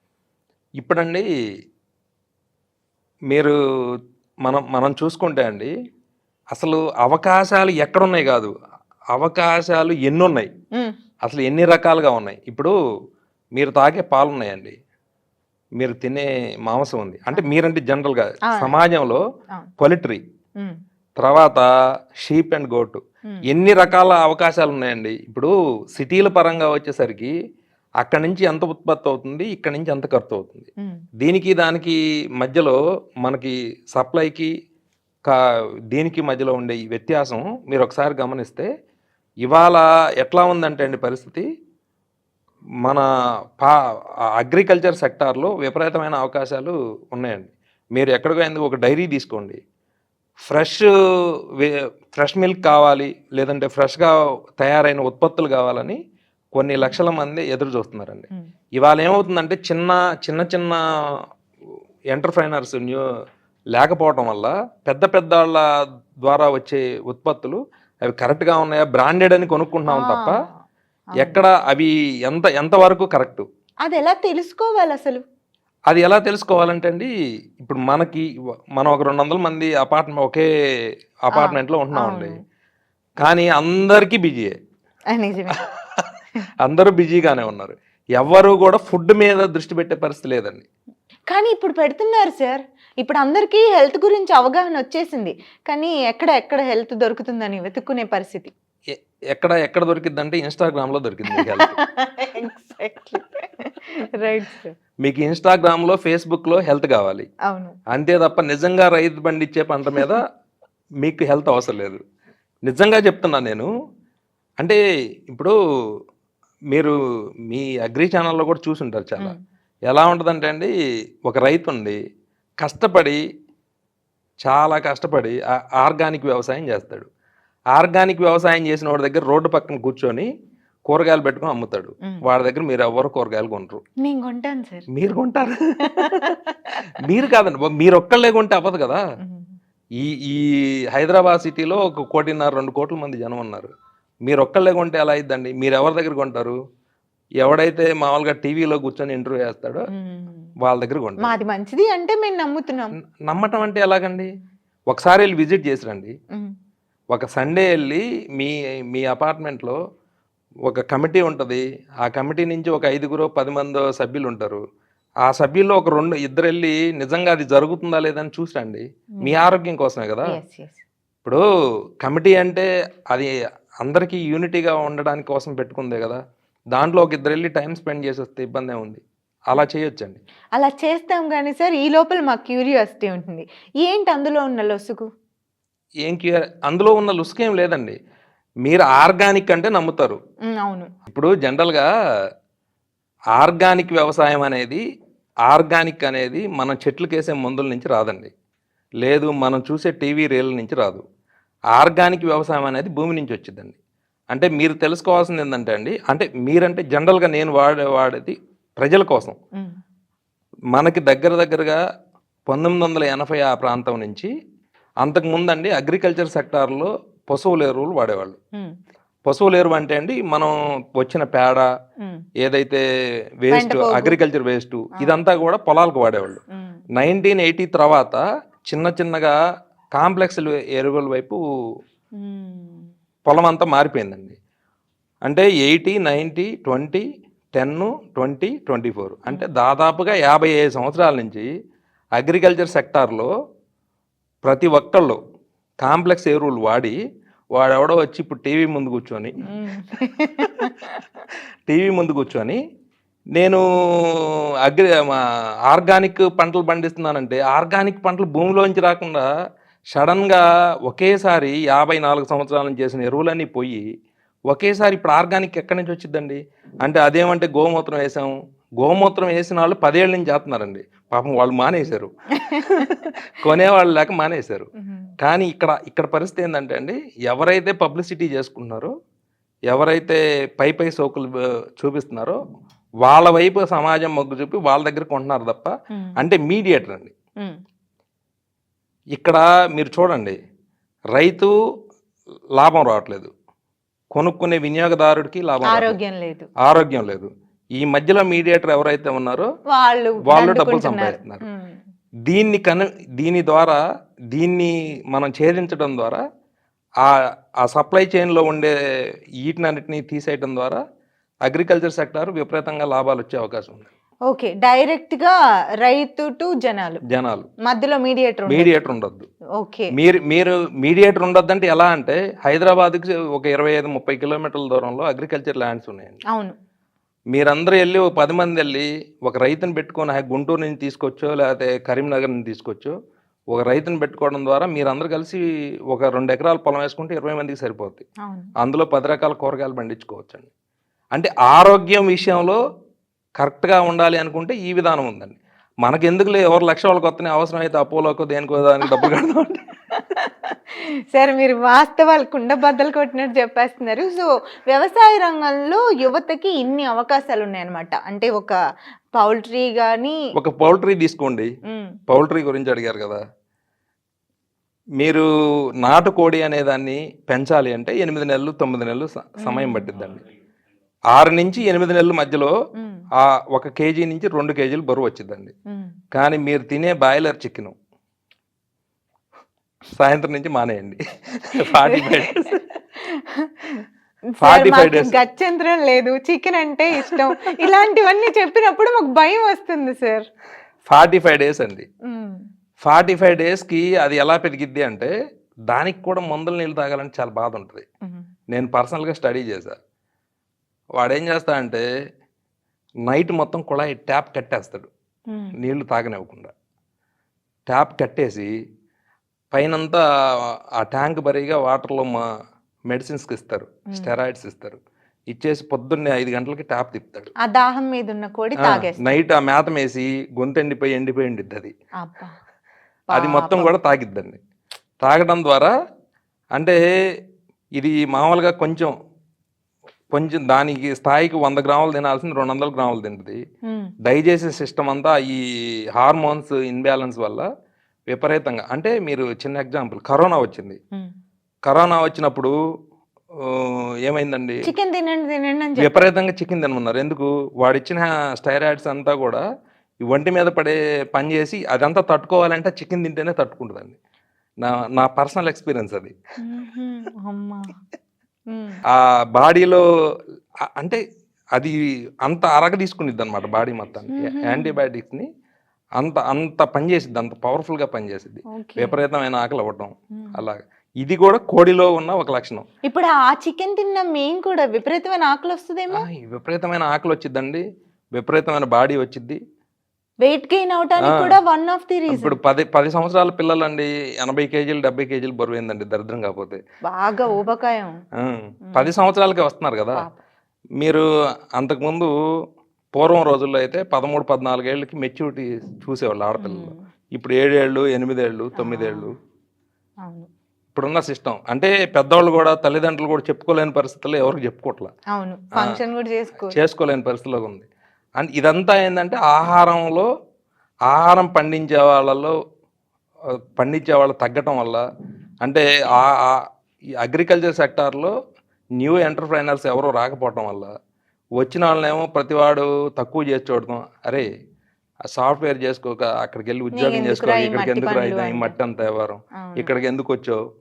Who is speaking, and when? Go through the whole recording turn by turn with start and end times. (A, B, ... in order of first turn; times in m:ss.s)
0:00.8-0:01.3 A
0:03.3-0:03.5 A
0:04.4-0:05.7 A
0:06.5-0:08.5 A
0:09.1-0:10.5 A
0:11.2-0:12.7 A
0:13.5-0:14.8 A
0:15.8-0:19.2 A
0:18.4-0:18.7 B
0:19.8-0:20.2 A
0:21.2-0:21.7 A
0:22.2-0:27.3 A
0:28.0-0:30.7 A
0:31.2-0:34.5 A
0:35.3-0:38.7 A
0:39.4-0:41.4 A
0:44.4-0:49.6 A
0:50.5-0:50.9 A
0:51.6-0:56.0 A
0:56.6-0:58.3 A
0:58.8-1:00.8 A
1:02.1-1:03.0 A
1:03.7-1:05.6 A
1:06.2-1:10.3 A
1:09.9-1:10.5 B
1:11.1-1:11.4 B
1:11.2-1:13.4 A
1:13.8-1:15.2 B
1:15.9-1:20.5 A
1:21.3-1:22.4 A
1:21.3-1:22.4 B
1:23.2-1:24.6 A
1:25.1-1:25.6 B
1:25.6-1:26.1 A
1:26.6-1:30.6 A
1:31.3-1:38.5 B
1:38.9-1:41.7 A
1:41.3-1:44.7 B
1:45.0-1:47.3 A
1:47.5-1:47.8 B
1:47.9-1:50.2 A
1:51.0-1:52.0 A
1:52.6-1:53.7 A
1:54.6-1:55.5 A
1:57.5-1:59.3 A
1:59.9-2:00.7 A
2:01.2-2:02.0 A
2:02.6-2:03.2 A
2:04.4-2:07.1 A
2:07.7-2:10.3 A
2:10.9-2:13.8 A
2:14.0-2:14.9 B
2:14.9-2:16.4 A
2:15.8-2:16.8 B
2:17.0-2:19.0 A
2:19.2-2:19.5 B
2:20.0-2:23.7 A
2:24.2-2:26.6 A
2:27.4-2:29.9 A
2:29.9-2:30.5 B
2:30.6-2:31.3 A
2:31.2-2:32.9 B
2:33.2-2:34.3 A
2:34.9-2:36.1 A
2:37.1-2:39.8 A
2:40.7-2:44.6 A
2:45.2-2:50.4 A
2:50.3-2:50.8 B
2:52.0-2:53.3 A
2:53.8-2:56.2 A
2:56.7-3:00.2 A
3:00.6-3:05.1 B
3:06.0-3:08.0 A
3:08.6-3:10.2 A
3:10.6-3:10.9 B
3:11.0-3:11.9 A
3:13.4-3:14.8 A
3:15.5-3:18.3 A
3:19.0-3:21.0 A
3:21.7-3:23.8 A
3:24.3-3:29.4 A
3:30.7-3:31.8 A
3:32.5-3:34.3 A
3:35.0-3:38.4 A
3:39.2-3:41.7 A
3:42.4-3:42.8 A
3:43.4-3:46.4 A
3:43.5-3:44.2 B
3:46.5-3:46.8 B
3:47.0-3:49.4 A
3:49.9-3:51.4 A
3:52.2-3:52.9 B
3:53.2-3:54.4 A
3:55.2-4:01.5 A
4:02.2-4:03.3 A
4:04.4-4:05.2 A
4:05.8-4:07.0 A
4:07.5-4:09.3 A
4:09.5-4:11.0 B
4:11.7-4:12.6 A
4:13.4-4:19.3 A
4:19.9-4:23.8 A
4:24.5-4:34.7 A
4:32.4-4:32.9 B
4:34.8-4:35.1 B
4:35.2-4:38.9 A
4:39.7-4:42.4 A
4:43.0-4:47.1 A
4:49.1-4:50.4 A
4:51.1-4:51.5 A
4:52.6-4:53.3 A
4:54.1-4:56.0 A
4:55.7-4:56.5 B
4:56.6-4:59.5 A
4:59.7-5:01.7 B
5:00.3-5:01.4 A
5:02.3-5:03.8 A
5:04.3-5:06.2 A
5:07.0-5:08.7 A
5:09.4-5:10.8 A
5:11.4-5:13.9 A
5:14.3-5:17.0 B
5:17.1-5:17.5 A
5:17.6-5:18.7 B
5:18.5-5:19.3 A
5:19.6-5:19.9 B
5:19.9-5:26.2 A
5:27.3-5:32.9 A
5:33.5-5:38.0 A
5:38.6-5:40.5 A
5:41.1-5:42.6 A
5:43.4-5:49.6 A
5:50.1-5:58.6 B
5:59.1-6:00.2 B
6:00.4-6:01.5 A
6:01.7-6:02.0 B
6:02.1-6:03.2 A
6:05.0-6:05.3 A
6:05.8-6:10.2 A
6:09.4-6:09.9 B
6:11.1-6:12.5 A
6:12.8-6:13.0 B
6:13.2-6:15.5 A
6:16.1-6:17.7 A
6:20.0-6:22.6 A
6:21.6-6:22.4 B
6:23.0-6:23.8 B
6:24.4-6:30.2 B
6:24.4-6:25.2 A
6:30.9-6:31.8 A
6:32.1-6:32.4 B
6:32.8-6:35.1 A
6:35.7-6:37.8 A
6:38.5-6:39.8 A
6:41.0-6:41.8 A
6:43.1-6:44.9 A
6:45.6-6:46.5 A
6:47.7-6:48.5 A
6:49.5-6:50.0 A
6:50.8-6:52.2 A
6:52.9-6:54.8 A
6:55.3-6:57.3 A
6:57.4-6:59.2 B
6:58.6-7:01.7 A
7:02.0-7:02.3 B
7:03.1-7:03.7 B
7:03.1-7:04.4 A
7:05.0-7:05.7 A
7:07.8-7:08.9 A
7:10.1-7:13.4 A
7:13.7-7:13.9 B
7:14.0-7:15.4 A
7:16.0-7:17.4 A
7:18.1-7:20.8 A
7:21.7-7:22.5 A
7:23.4-7:24.6 A
7:24.6-7:26.1 B
7:25.8-7:29.4 A
7:30.0-7:34.0 A
7:34.6-7:36.1 A
7:36.4-7:37.7 B
7:38.5-7:38.8 B
7:38.9-7:39.8 A
7:41.6-7:45.3 A
7:44.1-7:44.8 B
7:46.0-7:52.6 A
7:48.5-7:49.0 B
7:50.2-7:50.4 B
7:52.8-7:56.0 B
7:55.9-7:59.4 A
8:00.2-8:02.4 B
8:01.0-8:01.4 A
8:02.1-8:06.6 A
8:06.8-8:08.0 B
8:08.2-8:10.0 A
8:10.8-8:11.0 A
8:11.6-8:12.1 A
8:12.9-8:19.1 A
8:16.4-8:16.8 B
8:18.6-8:19.1 B
8:20.7-8:24.9 A
8:25.1-8:26.6 B
8:26.5-8:27.6 A
8:28.2-8:30.1 A
8:30.9-8:32.3 A
8:33.6-8:34.8 A
8:35.4-8:36.4 A
8:37.0-8:38.1 A
8:38.8-8:40.7 A
8:41.4-8:44.3 A
8:45.1-8:50.4 A
8:46.7-8:48.5 B
8:49.4-8:49.7 B